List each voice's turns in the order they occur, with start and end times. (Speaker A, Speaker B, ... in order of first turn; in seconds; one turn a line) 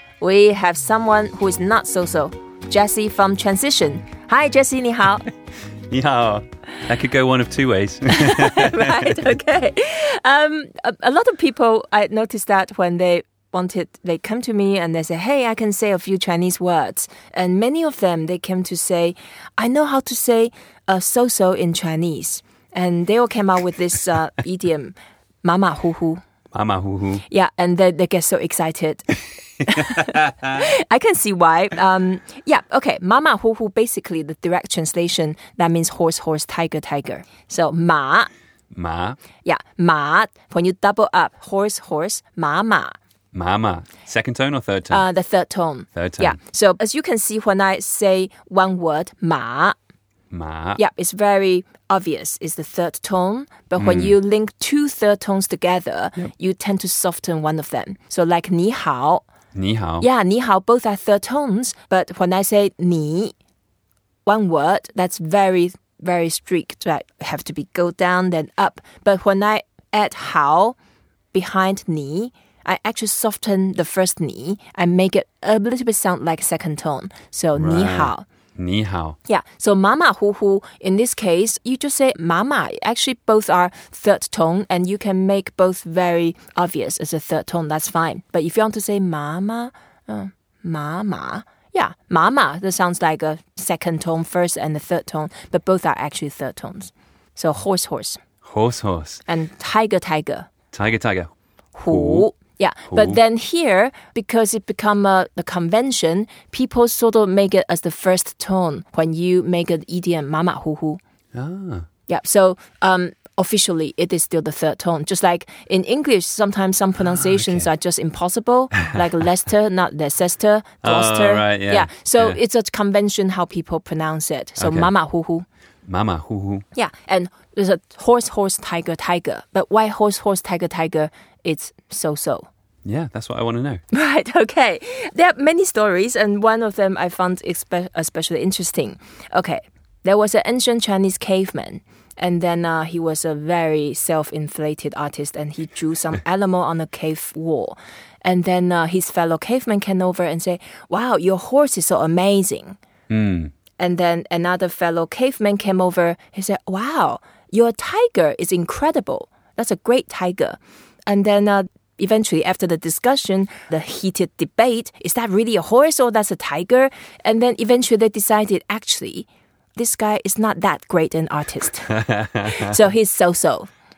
Speaker A: 0.2-5.3
Speaker B: 5.9-9.2
Speaker A: 8.1-26.2
Speaker B: 26.5-27.2
Speaker A: 27.3-38.3
Speaker B: 38.7-39.2
Speaker A: 39.4-43.0
Speaker B: 43.3-45.0
Speaker A: 44.9-49.7
Speaker B: 45.9-46.4
Speaker B: 50.3-50.8
Speaker A: 50.8-59.2
Speaker B: 53.8-54.1
Speaker B: 59.5-60.1
Speaker A: 60.0-63.3
Speaker A: 64.2-70.8
Speaker A: 71.3-78.2
Speaker B: 77.5-79.2
Speaker A: 79.3-98.2
Speaker B: 98.4-99.2
Speaker A: 99.2-100.5
Speaker B: 100.7-101.3
Speaker A: 101.7-111.0
Speaker B: 101.9-102.3
Speaker B: 102.9-103.2
Speaker B: 111.3-111.9
Speaker A: 112.1-125.5
Speaker B: 117.0-117.7
Speaker B: 120.8-122.4
Speaker B: 124.6-124.9
Speaker B: 125.8-126.6
Speaker A: 126.7-132.5
Speaker B: 132.8-133.8
Speaker A: 133.9-152.8
Speaker B: 153.1-153.5
Speaker A: 153.8-173.7
Speaker B: 171.9-172.7